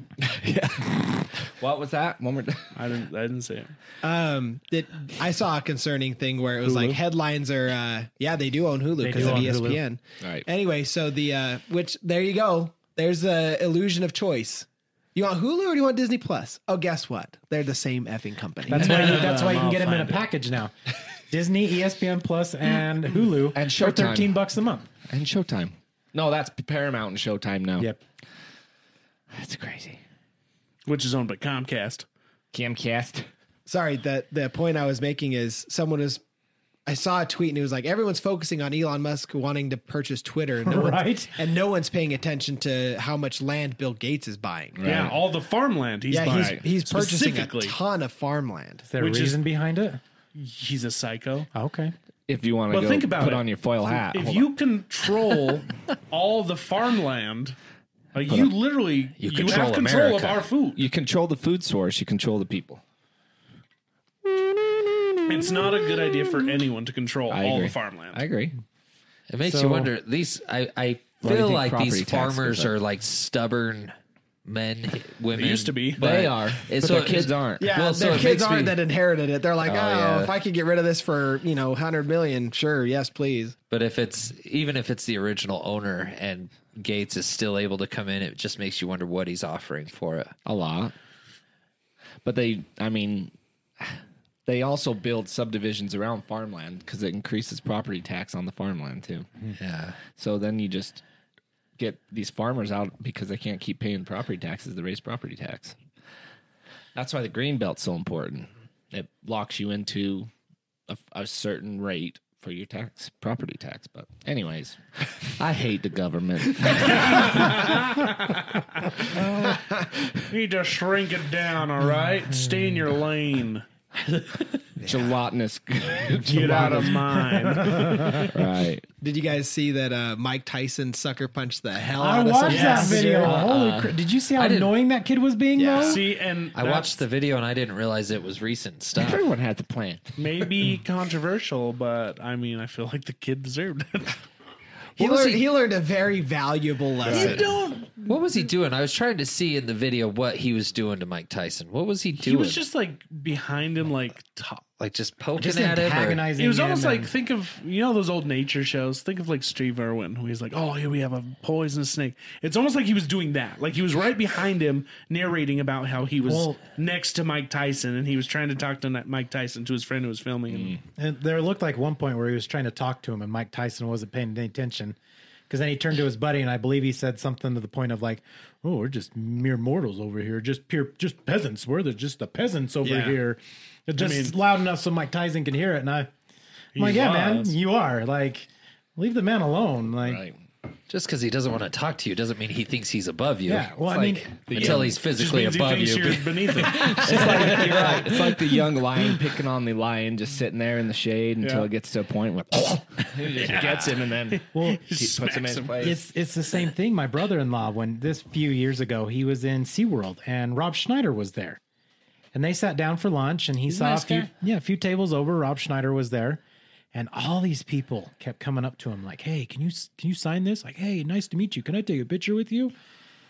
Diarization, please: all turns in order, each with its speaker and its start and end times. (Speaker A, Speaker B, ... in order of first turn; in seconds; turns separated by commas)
Speaker A: 0.2-2.7, Speaker B: 2.7-3.7, Speaker C: 4.0-19.2, Speaker B: 6.6-7.0, Speaker D: 9.0-9.8, Speaker D: 18.7-20.7, Speaker B: 18.7-20.2, Speaker D: 21.3-24.9, Speaker A: 23.5-24.3, Speaker A: 25.1-27.9, Speaker A: 29.3-30.0, Speaker B: 30.8-32.0, Speaker A: 32.5-33.3, Speaker C: 33.7-36.2, Speaker C: 36.9-44.8, Speaker D: 40.6-41.3, Speaker A: 44.8-45.2, Speaker B: 44.8-47.8, Speaker C: 46.1-48.9, Speaker A: 46.2-46.6, Speaker D: 48.9-50.0, Speaker B: 49.0-49.4, Speaker B: 50.3-51.5, Speaker D: 51.5-51.9, Speaker A: 52.3-54.5, Speaker B: 52.7-57.5, Speaker B: 58.1-60.8, Speaker A: 58.2-58.5, Speaker E: 59.2-60.4, Speaker A: 60.8-62.8, Speaker B: 65.2-68.2, Speaker A: 67.3-68.5, Speaker E: 69.3-73.9, Speaker D: 69.4-69.9, Speaker A: 71.2-72.7, Speaker E: 74.4-78.8, Speaker B: 75.3-76.0, Speaker A: 76.0-77.7, Speaker C: 77.6-83.5, Speaker E: 79.6-80.3, Speaker E: 83.7-90.3, Speaker A: 90.5-90.9, Speaker A: 92.2-99.3, Speaker E: 99.5-100.0, Speaker A: 100.0-101.0, Speaker A: 101.8-105.8, Speaker A: 106.9-110.3, Speaker A: 110.9-117.8, Speaker B: 116.7-118.9, Speaker A: 119.1-120.2, Speaker B: 120.3-124.7, Speaker C: 124.8-125.1, Speaker A: 124.8-127.3, Speaker B: 126.1-128.4, Speaker D: 126.2-128.3, Speaker A: 128.3-128.8, Speaker C: 129.0-133.3, Speaker D: 132.0-136.0, Speaker B: 132.4-133.5, Speaker A: 133.2-134.0, Speaker E: 134.4-134.7, Speaker C: 135.6-136.0, Speaker B: 135.8-136.9, Speaker E: 136.5-139.2, Speaker A: 138.9-140.3, Speaker B: 140.2-144.2, Speaker E: 145.0-145.4, Speaker C: 145.0-147.5, Speaker A: 147.1-147.5, Speaker B: 147.1-148.4, Speaker E: 148.1-152.6, Speaker B: 152.2-154.6, Speaker E: 154.8-156.2, Speaker D: 155.4-157.1, Speaker B: 156.3-170.8, Speaker D: 166.2-166.6, Speaker A: 170.5-170.8, Speaker D: 171.0-174.9, Speaker D: 175.5-186.1, Speaker C: 182.8-183.1, Speaker B: 184.0-184.3, Speaker B: 186.7-187.5, Speaker D: 186.8-190.2, Speaker A: 190.0-190.4, Speaker E: 190.9-193.7, Speaker D: 193.4-194.5, Speaker A: 193.8-195.0, Speaker E: 194.5-197.8, Speaker B: 194.5-197.6, Speaker A: 196.8-206.0, Speaker D: 197.0-198.2, Speaker B: 201.4-201.7, Speaker B: 203.2-205.9, Speaker D: 204.5-204.8, Speaker D: 205.8-211.6, Speaker D: 212.3-216.4, Speaker B: 213.7-214.3, Speaker D: 216.9-222.7